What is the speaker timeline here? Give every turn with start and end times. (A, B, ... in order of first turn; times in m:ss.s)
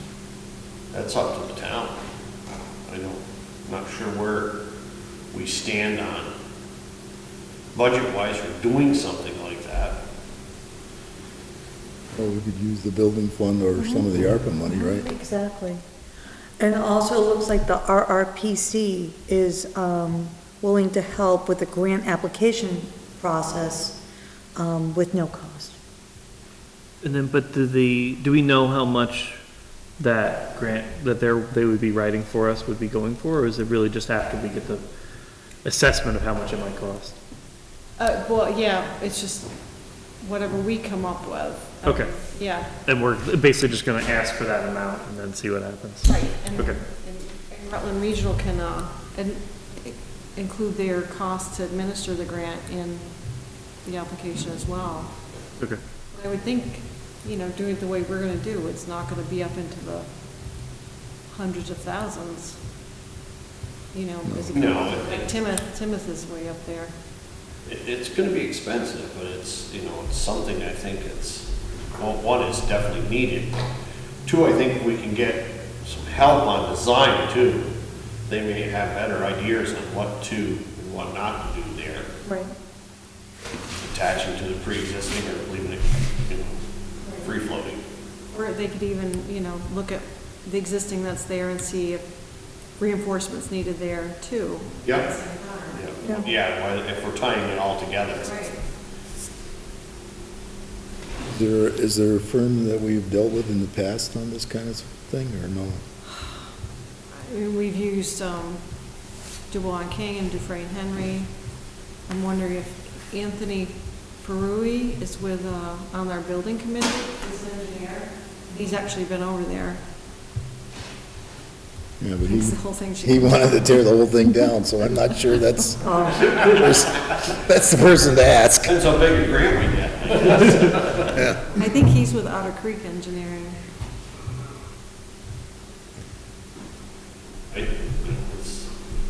0:00.9-0:02.0 A
0:02.8-0:04.6 A
0:05.3-0:06.3 A
0:07.7-0:10.0 A
0:12.2-0:15.1 B
0:13.8-0:15.8 C
0:16.6-0:24.0 C
0:24.6-0:25.8 C
0:27.0-0:29.4 D
0:30.0-0:34.8 D
0:35.6-0:37.2 D
0:38.0-0:39.5 E
0:40.2-0:42.7 E
0:41.8-0:42.2 D
0:42.8-0:46.8 D
0:46.0-0:53.1 E
0:53.8-0:55.1 E
0:56.1-1:00.1 E
1:01.3-1:02.6 E
1:03.9-1:06.9 E
1:04.2-1:04.6 B
1:04.5-1:05.3 A
1:07.6-1:13.5 A
1:14.2-1:17.7 A
1:18.3-1:22.1 A
1:23.8-1:26.6 A
1:27.2-1:27.8 A
1:28.3-1:32.0 E
1:32.8-1:35.8 E
1:34.8-1:38.4 A
1:38.2-1:38.5 E
1:41.3-1:45.8 B
1:47.2-1:48.6 E
1:49.5-1:51.3 E
1:52.1-1:59.8 E
2:02.0-2:08.8 B
2:02.2-2:03.6 E
2:08.6-2:11.1 A
2:11.1-2:11.5 B
2:11.6-2:13.6 E
2:17.5-2:18.7 A